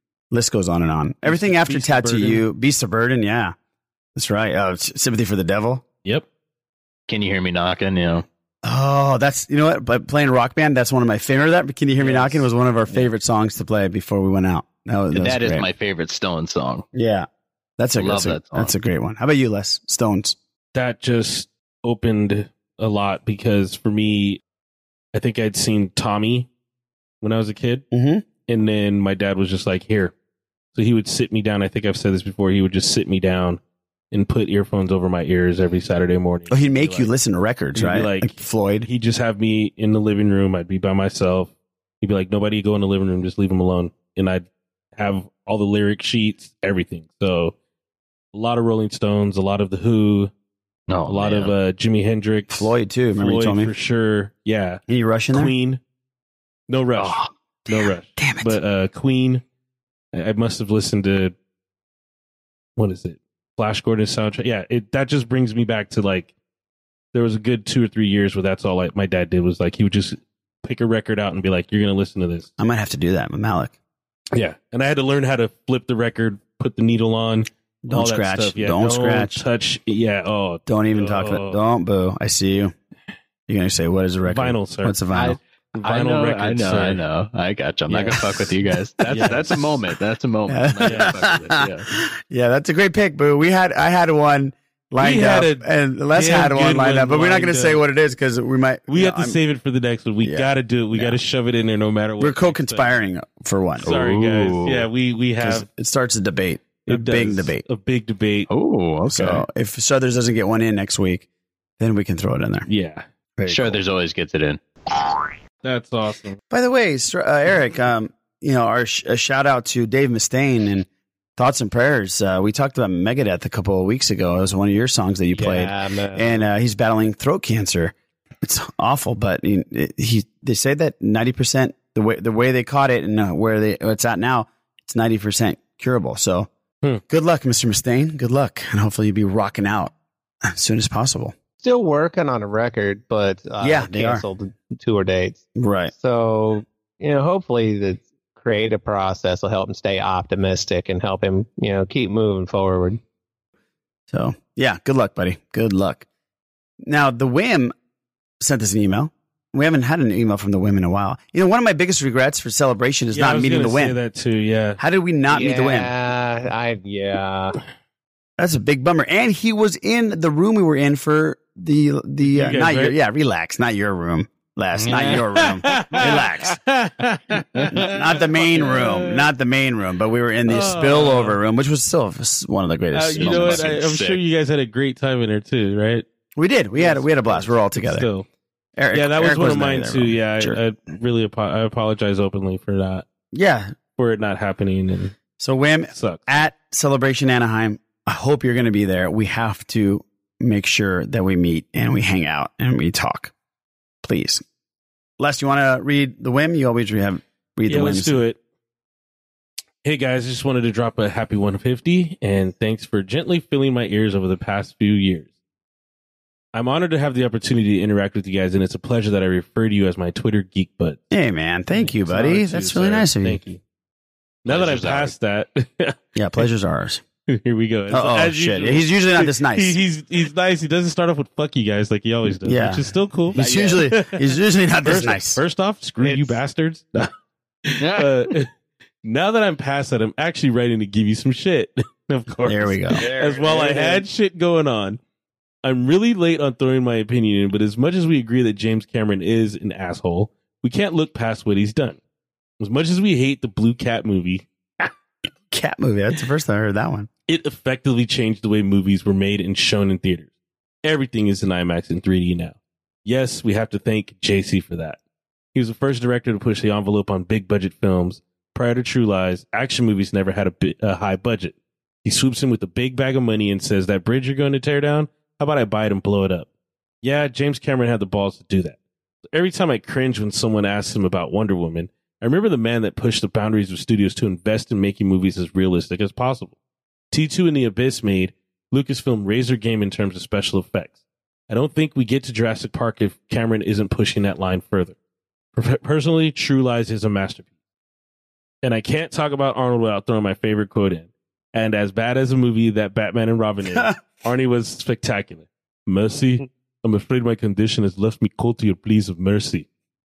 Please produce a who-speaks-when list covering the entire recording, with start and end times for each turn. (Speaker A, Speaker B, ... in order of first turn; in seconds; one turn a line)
Speaker A: 0.3-3.6
Speaker B: 1.3-2.4
Speaker A: 4.1-5.8
Speaker C: 7.1-8.2
Speaker A: 8.6-15.7
Speaker B: 12.0-12.4
Speaker C: 15.1-16.9
Speaker A: 16.9-17.3
Speaker A: 17.8-20.4
Speaker C: 18.0-18.7
Speaker B: 20.7-24.4
Speaker B: 25.1-26.5
Speaker B: 27.2-27.9
Speaker A: 27.9-28.3
Speaker B: 28.5-30.1
Speaker B: 30.7-33.6
Speaker B: 34.1-37.1
Speaker A: 36.5-38.9
Speaker B: 37.7-38.3
Speaker B: 38.8-47.5
Speaker B: 48.3-50.3
Speaker C: 50.9-51.5
Speaker B: 51.1-54.8
Speaker A: 52.5-53.7
Speaker A: 54.9-55.5
Speaker B: 55.3-55.8
Speaker B: 56.7-59.4
Speaker C: 57.0-57.2
Speaker A: 57.7-58.6
Speaker B: 60.1-61.4
Speaker B: 62.8-66.3
Speaker B: 67.1-72.5
Speaker A: 72.6-73.7
Speaker B: 74.3-81.6
Speaker A: 77.8-79.5
Speaker A: 80.7-82.7
Speaker A: 83.5-85.4
Speaker B: 84.3-85.0
Speaker C: 85.1-91.9
Speaker B: 85.8-87.0
Speaker B: 87.9-88.5
Speaker B: 89.1-89.7
Speaker A: 89.1-89.5
Speaker A: 90.5-99.4
Speaker B: 90.9-91.3
Speaker B: 95.0-97.8
Speaker B: 98.9-102.9
Speaker A: 100.2-101.2
Speaker A: 102.2-103.9
Speaker C: 103.8-104.9
Speaker B: 103.8-105.7
Speaker A: 105.4-107.6
Speaker B: 106.9-108.5
Speaker C: 108.5-109.4
Speaker A: 109.1-111.3
Speaker A: 111.8-112.7
Speaker B: 112.7-113.0
Speaker A: 113.4-113.8
Speaker C: 113.5-114.6
Speaker B: 115.6-116.4
Speaker A: 116.5-136.5
Speaker D: 125.3-126.4
Speaker A: 137.1-139.9
Speaker A: 140.4-141.3
Speaker D: 141.6-145.4
Speaker A: 143.6-144.2
Speaker A: 145.6-145.9
Speaker D: 146.0-153.0
Speaker A: 154.1-156.1
Speaker A: 156.8-157.7
Speaker A: 158.4-164.0
Speaker B: 163.1-164.8
Speaker A: 164.8-165.9
Speaker D: 165.3-167.6
Speaker A: 168.4-176.6
Speaker B: 172.2-172.9
Speaker C: 174.7-175.2
Speaker B: 174.9-179.3
Speaker A: 177.7-183.7
Speaker B: 180.5-181.4
Speaker B: 182.9-186.1
Speaker C: 183.1-184.2
Speaker A: 186.4-188.1
Speaker B: 186.8-188.3
Speaker A: 188.8-190.6
Speaker B: 188.9-193.1
Speaker A: 193.3-193.8
Speaker B: 193.9-195.2
Speaker A: 195.4-203.3
Speaker B: 195.9-196.2
Speaker A: 204.0-204.4
Speaker A: 205.2-208.2
Speaker B: 207.7-208.4
Speaker B: 209.8-215.3
Speaker B: 216.5-221.0
Speaker A: 221.1-223.4
Speaker B: 221.7-223.6
Speaker B: 224.4-226.0
Speaker C: 224.5-225.1
Speaker A: 226.1-227.0
Speaker B: 227.3-237.1
Speaker A: 227.9-229.8
Speaker A: 232.4-235.4
Speaker D: 236.0-236.4
Speaker B: 237.7-238.5
Speaker C: 237.8-238.1
Speaker B: 239.0-245.0
Speaker A: 242.4-243.0
Speaker D: 242.9-244.0
Speaker B: 245.6-252.0
Speaker B: 252.6-254.9
Speaker A: 255.5-257.1
Speaker B: 257.3-260.3
Speaker B: 260.8-265.0
Speaker B: 265.5-276.5
Speaker B: 277.0-278.8
Speaker B: 279.3-286.5
Speaker B: 287.1-291.0
Speaker B: 291.5-294.9
Speaker B: 295.6-297.5
Speaker B: 298.6-309.7